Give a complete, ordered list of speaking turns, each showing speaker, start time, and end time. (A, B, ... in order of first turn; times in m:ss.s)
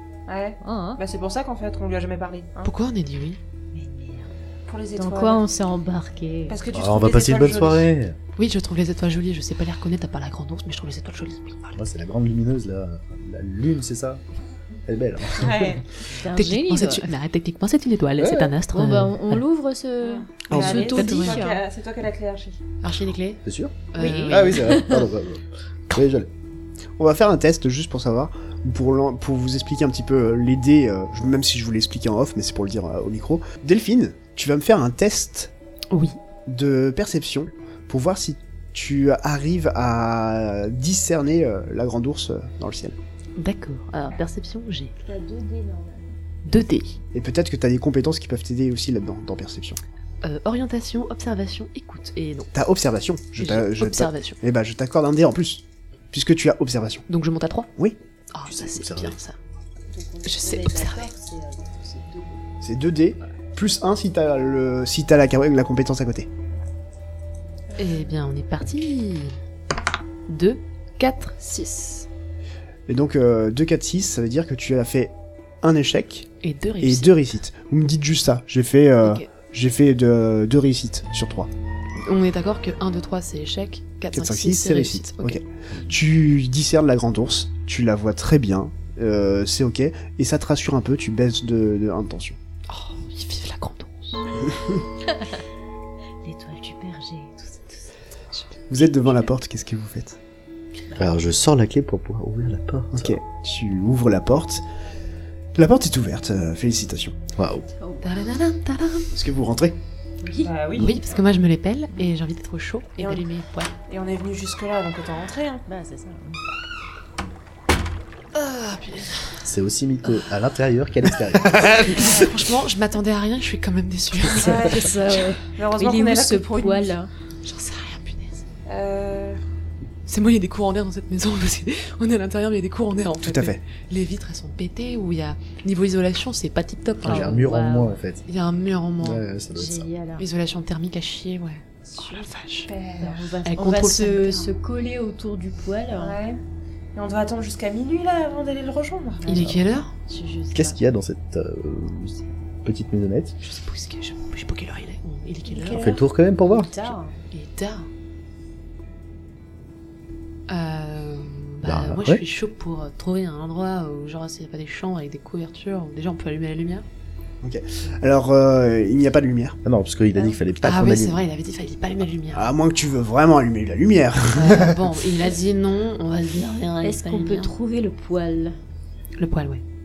0:00.3-0:02.7 A
0:00.6-0:01.0 B
0:02.6-0:03.4 C
0:03.7-0:04.3 B
0:04.7-0:05.4 A
0:05.0-0:06.6 B
0:06.5-0:07.9 A
0:06.7-0:08.2 D
0:08.4-0:11.8 C
0:11.8-0:14.2 D
0:14.9-0:15.7 D
0:15.3-0:15.8 A
0:16.1-0:17.1 B
0:16.3-0:19.4 C
0:18.2-0:18.5 D
0:18.7-0:21.6 B
0:20.0-0:22.6 A
0:20.5-0:20.8 E
0:20.6-0:21.4 C
0:22.8-0:23.4 C
0:23.4-0:26.3 D
0:23.9-0:24.7 C
0:24.0-0:25.1 B
0:27.0-0:35.5 E
0:35.9-0:36.2 C
0:36.4-0:43.0 E
0:43.4-0:44.9 C
0:45.0-0:46.1 B
0:46.4-0:47.0 C
0:47.1-0:49.8 E
0:50.2-0:52.5 C
0:52.5-0:57.0 E
0:53.4-0:54.4 C
0:57.1-0:57.7 C
0:58.3-0:59.4 C
0:58.5-0:59.2 D
0:59.9-1:02.4 B
1:00.2-1:01.1 C
1:02.6-1:06.3 E
1:07.8-1:09.4 C
1:10.3-1:12.1 C
1:12.9-1:16.3 E
1:16.4-1:17.1 C
1:16.8-1:21.5 E
1:19.0-1:19.3 C
1:22.0-1:25.4 C
1:24.1-1:32.4 E
1:32.7-1:34.2 C
1:35.0-1:35.4 B
1:36.2-1:37.8 B
1:38.7-1:40.2 E
1:40.9-1:43.2 D
1:42.9-1:44.6 E
1:45.5-1:47.2 E
1:47.4-1:47.7 D
1:47.8-1:48.0 B
1:48.0-1:49.1 C
1:49.1-1:49.8 E
1:50.2-1:50.5 B
1:50.4-1:51.0 A
1:50.7-1:53.7 C
1:53.0-1:53.2 A
1:53.9-1:55.6 A
1:55.7-1:56.4 B
1:58.3-1:59.4 C
1:59.4-2:01.9 D
2:01.5-2:01.8 E
2:01.5-2:04.8 C
2:02.0-2:02.2 A
2:04.3-2:05.0 A
2:04.4-2:07.1 B
2:05.5-2:06.9 A
2:07.4-2:08.4 C
2:08.6-2:09.4 A
2:10.0-2:17.4 C
2:13.2-2:13.6 E
2:17.0-2:18.2 D
2:17.0-2:18.0 B
2:18.3-2:19.2 C
2:19.0-2:19.9 D
2:19.5-2:20.2 B
2:20.2-2:22.7 C
2:22.0-2:23.3 A
2:23.0-2:26.2 B
2:23.4-2:24.5 C
2:25.9-2:26.4 A
2:26.9-2:29.3 A
2:29.2-2:30.8 B
2:29.2-2:29.9 C
2:30.5-2:33.4 D
2:33.4-2:35.9 C
2:35.5-2:36.0 A
2:35.8-2:36.7 D
2:36.4-2:37.1 B
2:37.3-2:37.9 C
2:40.5-2:46.8 C
2:41.6-2:42.2 D
2:47.4-2:49.6 E
2:49.6-2:51.2 D
2:50.6-2:52.5 C
2:52.3-2:54.8 E
2:54.3-2:57.5 C
2:56.8-2:58.6 B
2:59.2-2:59.6 C